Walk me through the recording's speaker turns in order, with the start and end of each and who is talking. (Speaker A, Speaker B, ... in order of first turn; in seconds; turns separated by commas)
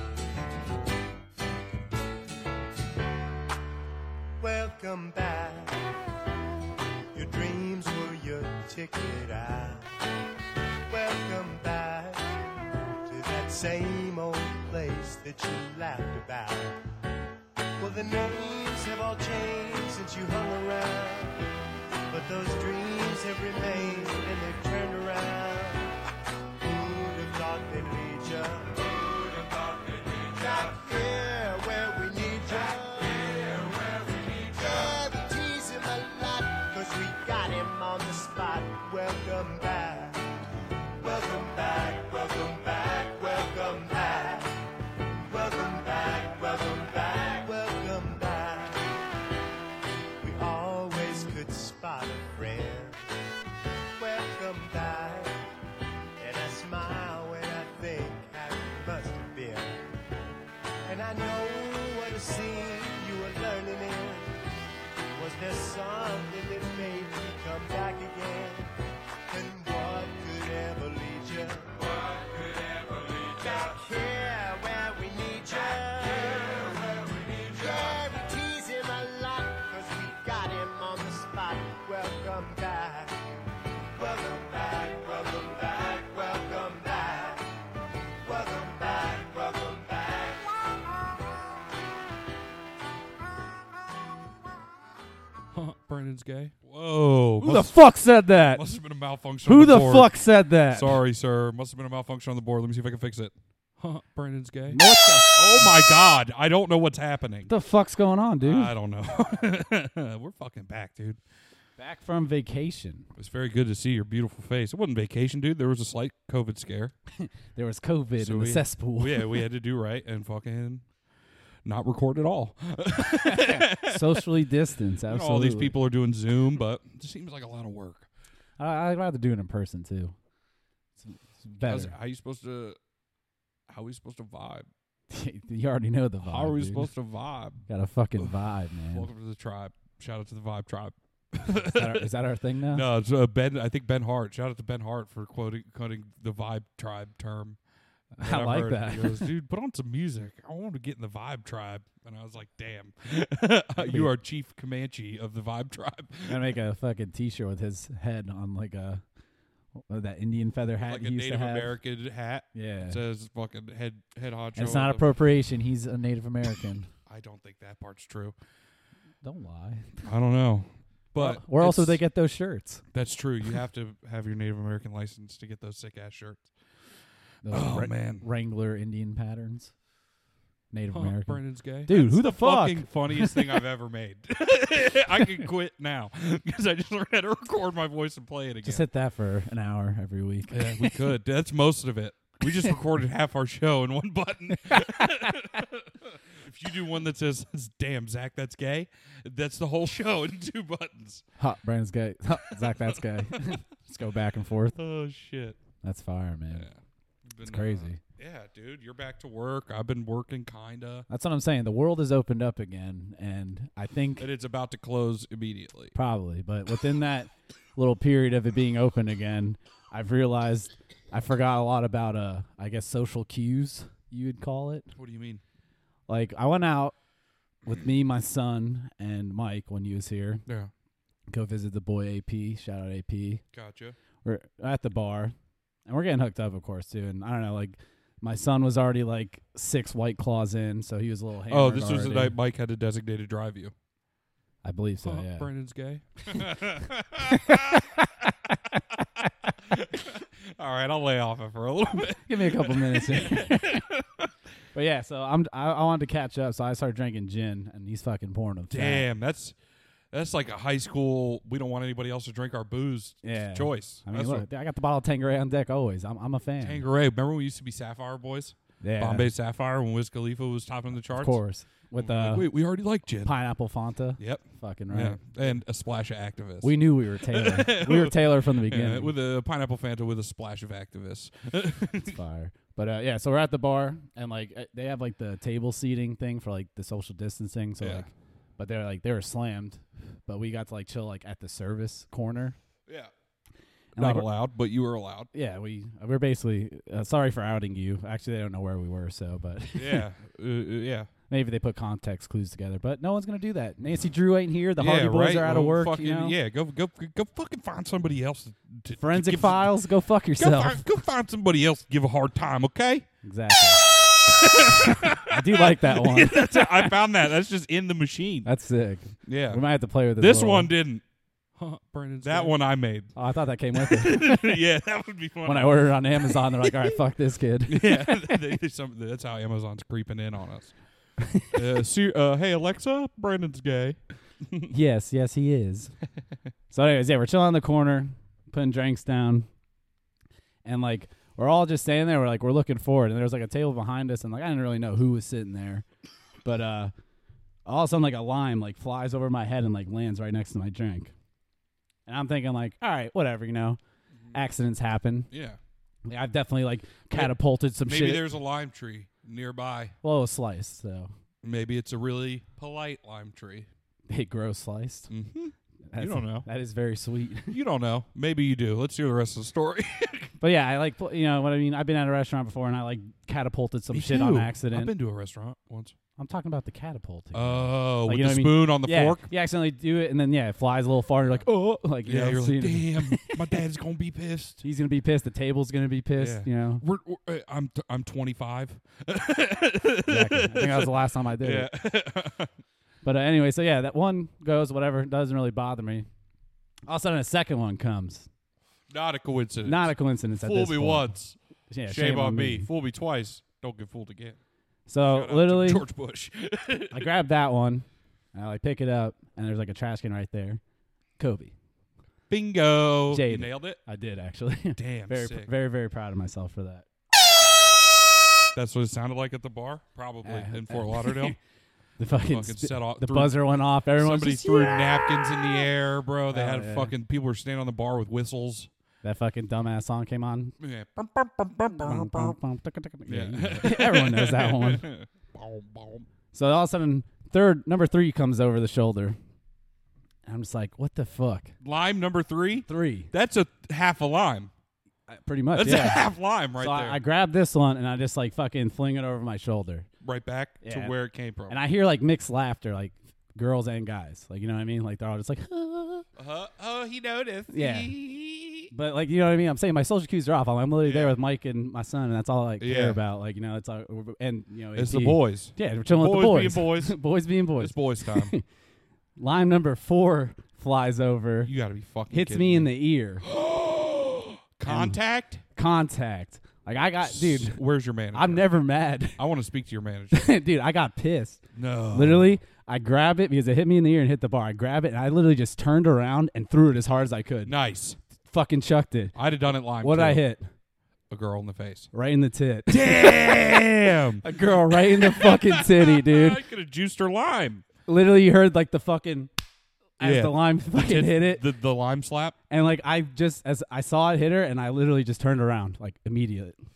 Speaker A: 4.4-5.8, Speaker A: 7.1-9.9, Speaker A: 10.9-12.3, Speaker A: 13.1-16.8, Speaker A: 17.8-21.4, Speaker A: 22.1-25.9, Speaker A: 26.6-29.1, Speaker A: 30.1-40.2, Speaker A: 41.0-44.5, Speaker A: 45.2-48.9, Speaker A: 50.2-53.0, Speaker A: 54.0-55.4, Speaker A: 56.2-59.8, Speaker A: 60.9-64.3, Speaker A: 65.1-68.7, Speaker A: 69.3-83.2, Speaker A: 83.9-87.5, Speaker A: 88.2-90.4, Speaker B: 95.5-97.7, Speaker C: 97.4-98.6, Speaker B: 98.5-100.1, Speaker C: 99.4-101.0, Speaker B: 100.7-104.8, Speaker C: 104.7-105.8, Speaker B: 105.3-107.5, Speaker C: 107.5-108.7, Speaker B: 108.4-111.2, Speaker C: 111.8-113.1, Speaker B: 113.2-117.0, Speaker C: 117.2-119.4, Speaker B: 118.2-120.8, Speaker B: 121.6-124.2, Speaker C: 123.2-125.8, Speaker B: 125.1-128.1, Speaker C: 128.6-130.1, Speaker C: 131.0-131.9, Speaker B: 131.6-132.8, Speaker B: 133.7-134.7, Speaker C: 135.1-136.9, Speaker B: 136.2-137.6, Speaker C: 137.7-139.1, Speaker B: 138.9-142.1, Speaker C: 141.7-142.9, Speaker B: 142.7-147.6, Speaker C: 148.2-149.3, Speaker B: 148.2-156.4, Speaker C: 153.8-154.1, Speaker C: 156.3-159.0, Speaker C: 159.9-161.8, Speaker B: 160.8-165.1, Speaker C: 162.5-163.0, Speaker C: 164.6-166.9, Speaker B: 167.1-168.4, Speaker C: 169.2-170.1, Speaker B: 170.1-172.0, Speaker C: 171.2-172.8, Speaker B: 172.9-176.5, Speaker C: 177.4-179.7, Speaker B: 177.5-178.3, Speaker C: 180.7-183.6, Speaker B: 180.9-188.8, Speaker C: 188.6-191.0, Speaker B: 190.5-201.2, Speaker C: 194.7-195.4, Speaker C: 201.4-204.8, Speaker B: 202.6-203.6, Speaker B: 204.8-205.6, Speaker C: 205.8-206.7, Speaker B: 206.5-211.1, Speaker C: 207.4-208.0, Speaker C: 211.1-214.3, Speaker B: 214.2-215.9, Speaker C: 215.9-224.9, Speaker B: 224.9-225.4, Speaker C: 226.1-226.9, Speaker C: 227.7-230.4, Speaker B: 230.5-230.7, Speaker C: 231.3-233.4, Speaker B: 233.5-234.0, Speaker C: 234.2-235.3, Speaker C: 235.9-242.4, Speaker B: 241.5-243.7, Speaker C: 244.6-245.5, Speaker B: 245.1-247.9, Speaker C: 246.3-246.6, Speaker C: 247.3-249.5, Speaker B: 249.6-254.3, Speaker C: 252.2-253.9, Speaker C: 254.7-259.1, Speaker B: 258.7-259.6, Speaker B: 260.1-264.5, Speaker C: 263.2-266.8, Speaker B: 266.6-271.4, Speaker C: 268.8-269.3, Speaker C: 270.9-272.5, Speaker B: 272.0-273.3, Speaker C: 273.2-275.6, Speaker B: 274.2-282.1, Speaker C: 276.6-279.1, Speaker C: 282.0-292.6, Speaker B: 287.8-288.1, Speaker B: 292.9-293.1, Speaker C: 293.9-294.3, Speaker B: 294.0-295.3, Speaker C: 295.3-300.1, Speaker B: 299.8-301.1, Speaker C: 301.3-306.4, Speaker B: 304.8-309.7, Speaker C: 309.0-310.8, Speaker B: 310.4-313.1, Speaker C: 313.2-313.8, Speaker B: 314.3-318.5, Speaker C: 314.8-317.0, Speaker C: 318.4-320.7, Speaker B: 319.2-319.6, Speaker B: 320.2-321.0, Speaker B: 321.6-323.1, Speaker C: 322.2-322.6, Speaker C: 323.1-324.6, Speaker B: 323.8-326.7, Speaker C: 325.4-328.4, Speaker B: 327.7-330.8, Speaker B: 331.5-334.7, Speaker C: 334.7-335.9, Speaker C: 336.7-339.5, Speaker C: 340.6-345.9, Speaker C: 346.4-346.9, Speaker C: 347.7-351.1, Speaker C: 352.1-353.8, Speaker B: 354.1-354.4, Speaker C: 354.3-355.3, Speaker B: 355.3-355.6, Speaker C: 356.1-358.3, Speaker B: 357.1-359.9, Speaker C: 360.0-361.1, Speaker B: 361.4-363.7, Speaker C: 364.1-365.1, Speaker B: 365.1-366.5, Speaker C: 365.9-367.6, Speaker B: 367.5-370.3, Speaker C: 370.4-374.9, Speaker B: 373.9-375.9, Speaker C: 376.2-383.6, Speaker B: 377.3-379.3, Speaker B: 382.1-384.6, Speaker C: 384.6-386.8, Speaker B: 386.2-392.5, Speaker C: 390.1-391.7, Speaker C: 393.0-396.1, Speaker C: 396.9-398.3, Speaker B: 398.9-404.4, Speaker C: 399.6-401.1, Speaker C: 401.7-402.7, Speaker C: 404.9-405.9, Speaker B: 405.0-407.1, Speaker C: 406.9-410.6, Speaker C: 411.2-411.5, Speaker B: 412.3-413.8, Speaker C: 413.1-416.9, Speaker B: 414.8-415.5, Speaker B: 418.5-421.4, Speaker C: 420.2-421.4, Speaker C: 422.0-424.8, Speaker B: 422.2-423.4, Speaker B: 423.9-428.7, Speaker C: 426.3-426.9, Speaker C: 429.0-430.6, Speaker B: 430.6-432.4, Speaker C: 431.7-434.9, Speaker B: 433.1-436.1, Speaker C: 436.3-439.2, Speaker C: 440.3-441.5, Speaker B: 441.6-444.5, Speaker C: 442.7-443.1, Speaker C: 445.1-449.9, Speaker B: 445.6-447.0, Speaker B: 450.0-451.6, Speaker C: 450.6-450.9, Speaker C: 451.5-456.1, Speaker B: 456.2-458.7, Speaker C: 457.5-457.9, Speaker C: 458.7-468.4, Speaker B: 460.8-461.2, Speaker B: 462.6-463.0, Speaker B: 464.8-467.0, Speaker B: 467.6-468.4, Speaker C: 469.2-471.5, Speaker B: 471.4-472.7, Speaker C: 472.1-473.2, Speaker B: 473.2-475.4, Speaker C: 474.7-475.0, Speaker C: 475.6-477.6, Speaker B: 477.0-478.5, Speaker C: 478.1-479.2, Speaker B: 479.2-480.4, Speaker C: 480.1-481.4, Speaker B: 481.5-482.3, Speaker C: 481.9-487.6, Speaker B: 487.4-488.0, Speaker C: 488.3-489.1, Speaker B: 489.2-490.3, Speaker C: 489.8-490.4, Speaker B: 491.1-491.9, Speaker C: 491.9-496.4, Speaker B: 492.7-497.6, Speaker C: 497.9-499.3, Speaker C: 500.0-501.4, Speaker B: 500.0-502.4, Speaker C: 502.5-506.6